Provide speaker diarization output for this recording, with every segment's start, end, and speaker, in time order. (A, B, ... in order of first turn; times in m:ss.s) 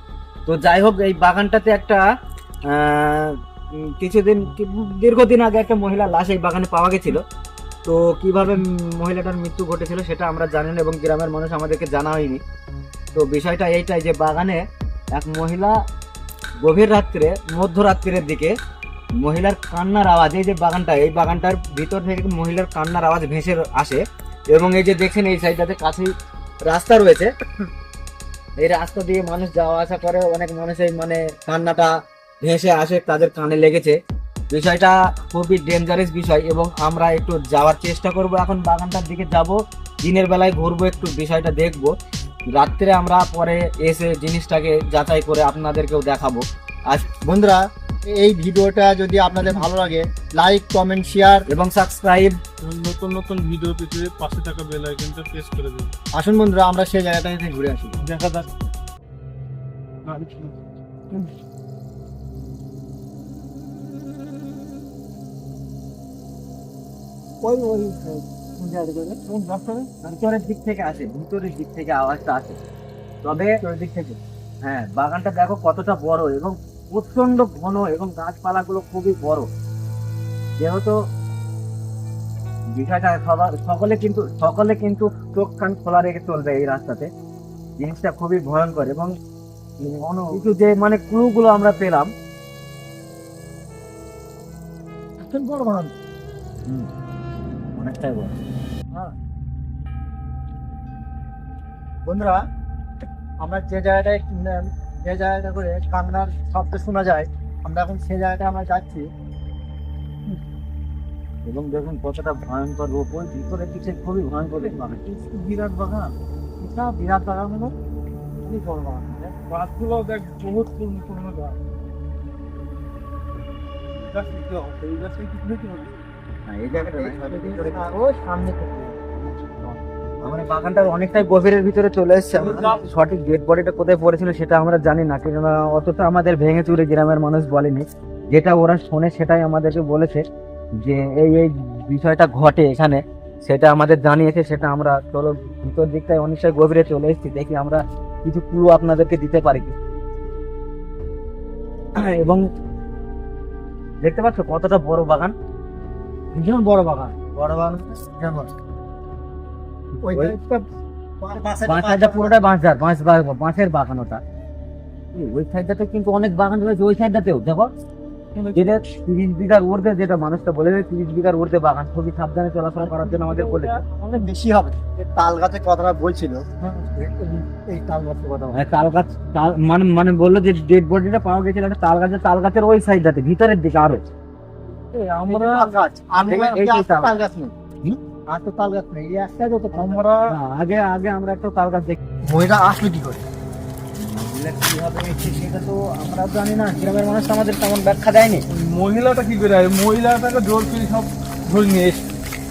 0:00.5-0:02.0 A
0:02.7-0:03.4 A
0:03.9-0:07.2 A
0:07.9-0:12.4 A
0:13.1-0:14.6 A
0:15.2-0:15.7 A
0:16.6-0:18.5 A
0:19.2-0:26.1 A
0:26.7-0:27.3 A
0:28.6-0:34.0 A
0:34.5-0:41.9 A
0:42.6-0:47.1 A
0:47.2-0:51.4 B
0:51.5-0:52.4 A
0:52.6-0:55.9 C
0:56.1-0:58.0 B
0:58.1-0:58.4 A
1:00.1-1:00.4 C
1:07.4-1:09.9 B
1:10.0-1:12.6 A
1:13.2-1:13.6 A
1:13.3-1:14.2 B
1:14.6-1:19.5 A
1:20.6-1:21.0 A
1:22.8-1:27.1 A
1:27.8-1:29.2 A
1:29.8-1:32.1 A
1:30.1-1:30.4 B
1:35.2-1:35.9 B
1:37.8-1:38.4 A
1:42.0-1:42.5 B
1:43.4-1:49.1 B
1:51.4-1:55.0 A
1:54.6-1:57.8 B
1:58.4-1:59.4 B
1:59.5-2:01.6 C
2:04.0-2:05.9 C
2:06.5-2:07.8 A
2:06.7-2:09.8 B
2:10.2-2:20.2 A
2:12.4-2:12.8 C
2:20.8-2:29.7 A
2:32.0-2:32.4 A
2:34.0-2:35.3 A
2:36.3-2:37.2 B
2:37.4-2:37.9 A
2:38.1-2:38.5 B
2:40.0-2:40.6 B
2:40.1-2:40.4 A
2:41.2-2:42.4 B
2:41.7-2:44.2 A
2:45.1-2:47.7 A
2:48.6-2:53.8 A
2:52.8-2:58.6 B
2:58.5-3:04.0 A
3:04.9-3:07.1 A
3:05.2-3:07.5 B
3:08.3-3:10.3 B
3:09.7-3:12.0 A
3:12.3-3:13.2 B
3:14.0-3:18.4 A
3:18.5-3:22.1 C